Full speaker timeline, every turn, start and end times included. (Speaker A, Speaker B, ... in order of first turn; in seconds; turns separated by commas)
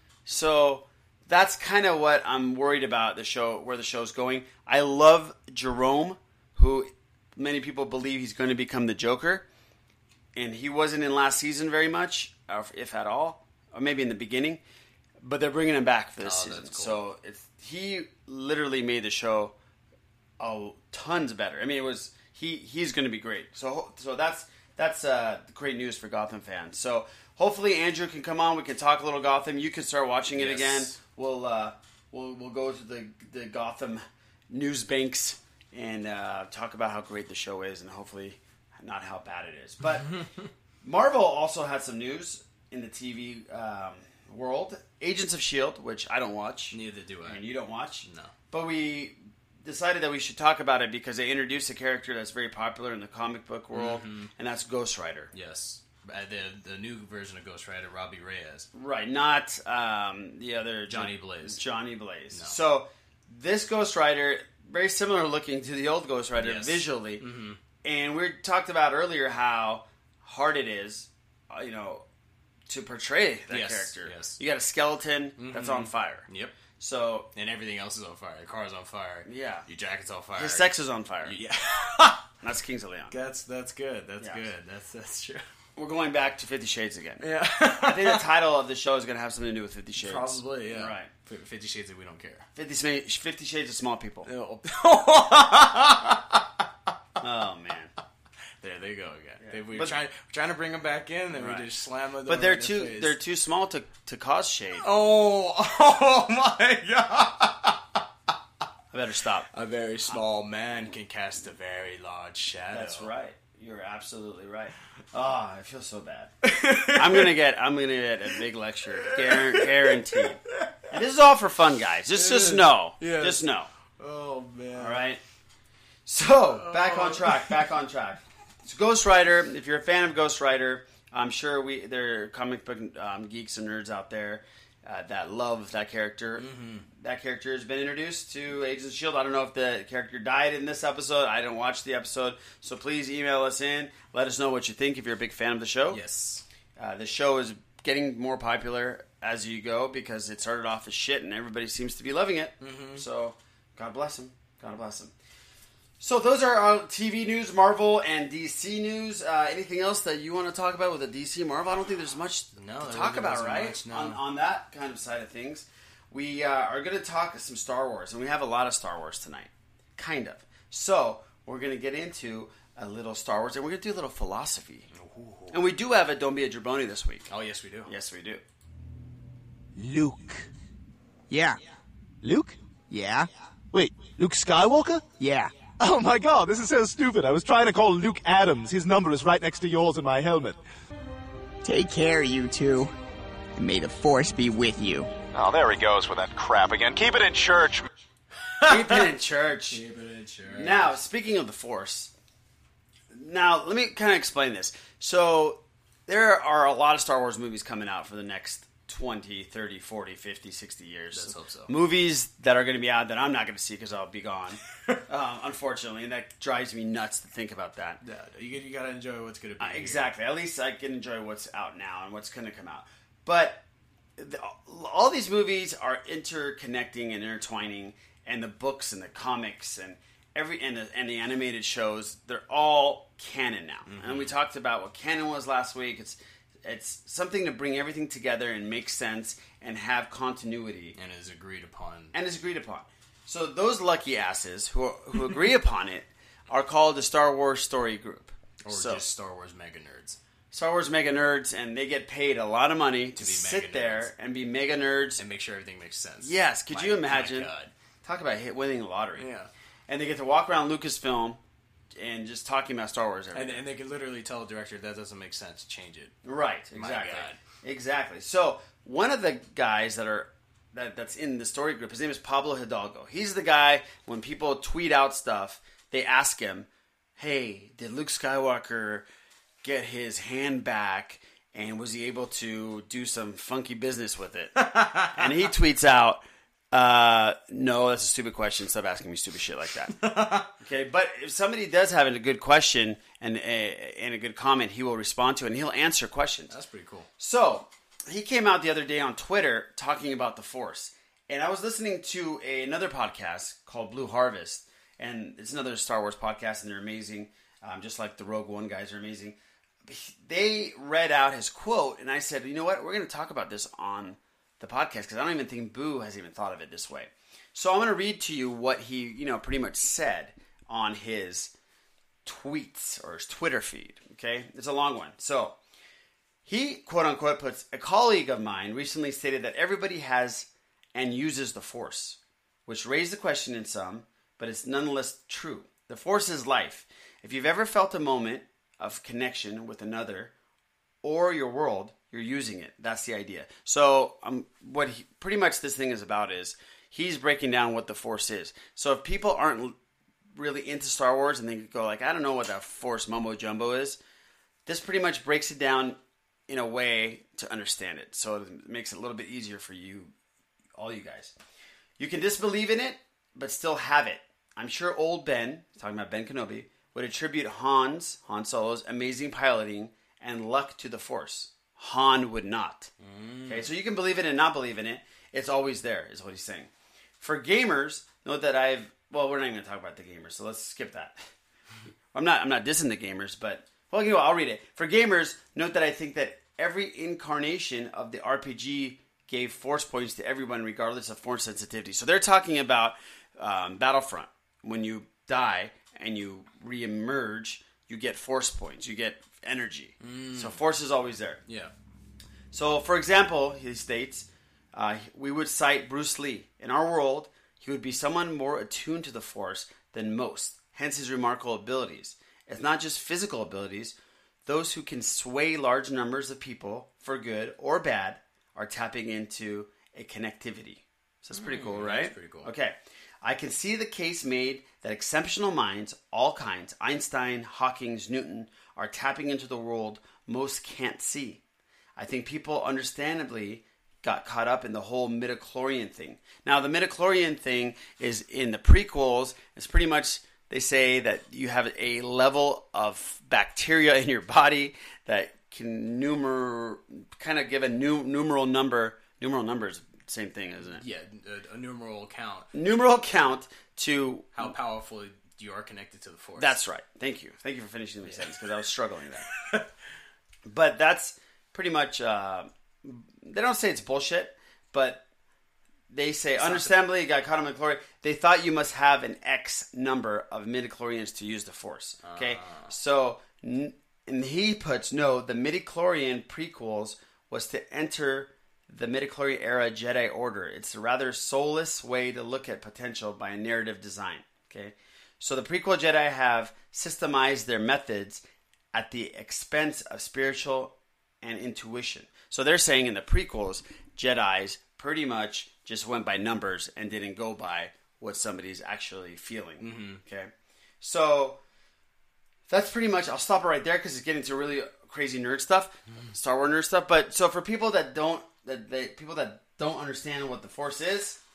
Speaker A: 0.3-9.5, Speaker A: 10.3-14.6, Speaker A: 15.2-19.6, Speaker B: 16.2-17.0, Speaker A: 20.4-40.1, Speaker B: 30.4-31.0, Speaker B: 40.0-40.5, Speaker A: 40.8-55.3, Speaker B: 46.7-47.4, Speaker B: 48.0-48.3, Speaker B: 53.7-54.3, Speaker B: 55.3-58.7, Speaker A: 58.7-67.2, Speaker B: 60.9-61.6, Speaker B: 62.3-62.6, Speaker B: 66.4-67.6, Speaker A: 67.8-72.0, Speaker A: 72.7-76.3, Speaker B: 73.5-74.4, Speaker B: 75.4-76.5, Speaker A: 76.8-77.3, Speaker B: 77.3-80.7, Speaker A: 79.3-79.7, Speaker A: 80.4-81.4, Speaker B: 81.2-82.3, Speaker A: 82.4-83.1, Speaker B: 83.1-85.4, Speaker A: 84.2-84.5, Speaker A: 85.8-91.1, Speaker B: 87.2-88.2, Speaker B: 90.0-92.5, Speaker A: 92.5-94.3, Speaker B: 94.3-96.5, Speaker A: 97.2-97.9, Speaker B: 98.6-103.2, Speaker A: 99.4-100.0, Speaker A: 101.3-101.7, Speaker A: 102.2-104.9, Speaker B: 104.8-108.0, Speaker A: 108.9-109.5, Speaker B: 109.5-113.1, Speaker A: 112.7-123.7, Speaker B: 116.4-117.3, Speaker B: 119.1-120.8, Speaker B: 122.1-123.4, Speaker B: 124.0-125.0, Speaker A: 124.8-125.2, Speaker A: 126.1-146.0, Speaker B: 126.5-127.6, Speaker B: 136.4-136.9, Speaker B: 145.9-146.4, Speaker A: 146.8-155.1, Speaker B: 152.6-153.1, Speaker A: 156.0-174.9, Speaker B: 162.6-164.2, Speaker B: 174.9-175.6, Speaker A: 175.5-177.3, Speaker B: 177.3-177.9, Speaker A: 177.9-178.4, Speaker C: 179.8-180.5, Speaker D: 181.3-181.6, Speaker C: 182.2-182.6, Speaker D: 182.9-183.3, Speaker C: 183.7-190.6, Speaker D: 185.2-185.5, Speaker D: 191.6-192.9, Speaker D: 193.6-195.1, Speaker E: 195.3-197.9, Speaker B: 198.6-199.1, Speaker A: 198.7-199.8, Speaker B: 199.7-201.0, Speaker A: 200.5-202.1, Speaker A: 203.1-218.0, Speaker B: 211.1-211.7, Speaker B: 218.0-220.1, Speaker A: 219.6-223.6, Speaker A: 224.2-240.9, Speaker B: 233.9-234.4, Speaker B: 240.9-242.2, Speaker A: 242.1-249.1, Speaker B: 248.6-250.2, Speaker A: 250.5-255.2, Speaker B: 253.2-254.1, Speaker B: 255.2-257.7, Speaker A: 256.2-257.5, Speaker A: 258.0-259.3, Speaker B: 259.2-259.5, Speaker A: 259.9-261.4, Speaker A: 261.9-263.6, Speaker B: 263.3-266.1, Speaker A: 266.2-279.1, Speaker B: 266.8-267.4, Speaker A: 279.6-290.0, Speaker B: 284.6-285.5, Speaker B: 290.0-290.5, Speaker A: 290.5-296.5, Speaker B: 296.5-297.1, Speaker A: 297.2-321.5, Speaker A: 322.2-325.6, Speaker A: 326.4-340.3, Speaker A: 341.0-349.8, Speaker A: 350.3-354.0, Speaker A: 354.7-360.1, Speaker A: 360.8-361.4, Speaker A: 362.0-372.9, Speaker B: 373.0-373.7, Speaker A: 373.5-381.2, Speaker A: 382.1-401.4, Speaker B: 400.0-400.6, Speaker B: 401.5-401.7, Speaker A: 402.5-431.4, Speaker B: 421.3-422.5, Speaker A: 432.0-450.8, Speaker B: 450.8-452.5, Speaker A: 452.5-454.5, Speaker B: 454.3-456.6, Speaker A: 456.4-459.3, Speaker B: 458.1-458.3, Speaker A: 460.5-465.0, Speaker A: 465.9-501.4, Speaker B: 466.4-466.8, Speaker B: 472.0-472.8, Speaker B: 499.6-500.0, Speaker A: 502.5-511.2